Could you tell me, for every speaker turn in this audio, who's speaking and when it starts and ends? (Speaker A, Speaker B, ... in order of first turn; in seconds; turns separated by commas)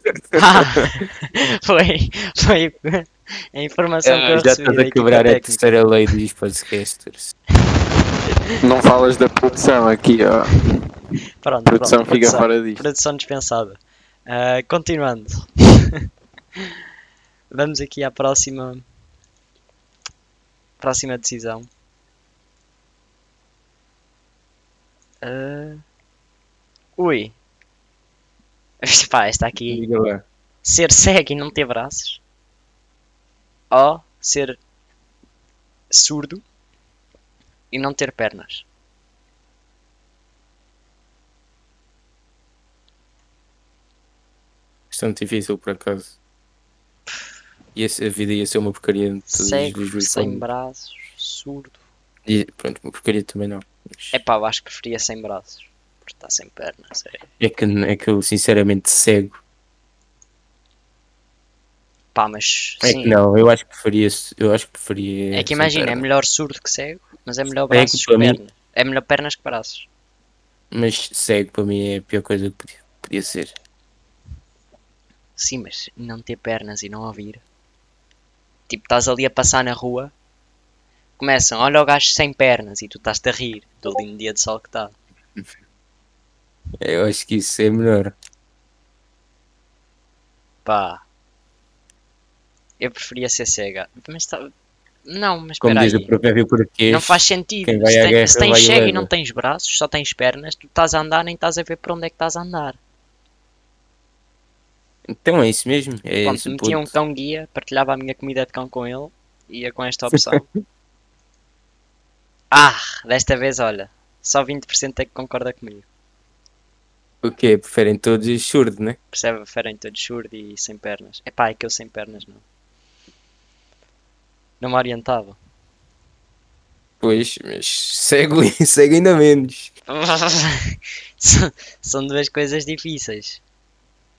Speaker A: 0.3-0.9, Speaker B: 0.3-5.7, Speaker A: 4.0-7.3, Speaker C: 8.6-10.6, Speaker B: 11.4-16.0, Speaker C: 11.7-12.8, Speaker B: 17.5-18.9, Speaker B: 20.8-21.7, Speaker B: 25.2-25.8, Speaker B: 27.0-27.4, Speaker B: 28.8-29.9, Speaker A: 29.7-30.2, Speaker B: 30.6-32.2, Speaker B: 33.7-34.6, Speaker B: 35.9-36.4, Speaker B: 37.7-38.6, Speaker A: 44.9-46.1, Speaker A: 47.8-50.5, Speaker B: 49.3-51.8, Speaker A: 52.3-54.2, Speaker B: 54.1-57.3, Speaker A: 57.4-59.4, Speaker B: 62.1-63.2, Speaker A: 62.8-66.1, Speaker B: 65.3-69.9, Speaker A: 67.7-68.4, Speaker A: 70.7-73.5, Speaker B: 75.4-77.4, Speaker B: 78.7-80.1, Speaker B: 81.2-85.0, Speaker A: 86.8-88.2, Speaker B: 90.7-91.0, Speaker B: 92.8-94.5, Speaker B: 95.1-96.1, Speaker A: 95.6-99.1, Speaker B: 96.9-102.8, Speaker A: 105.1-106.9, Speaker B: 106.2-110.5, Speaker A: 110.1-110.5, Speaker B: 112.5-115.9, Speaker A: 117.2-119.0, Speaker B: 119.1-122.4, Speaker B: 124.6-125.4, Speaker A: 127.0-129.7, Speaker B: 129.9-133.4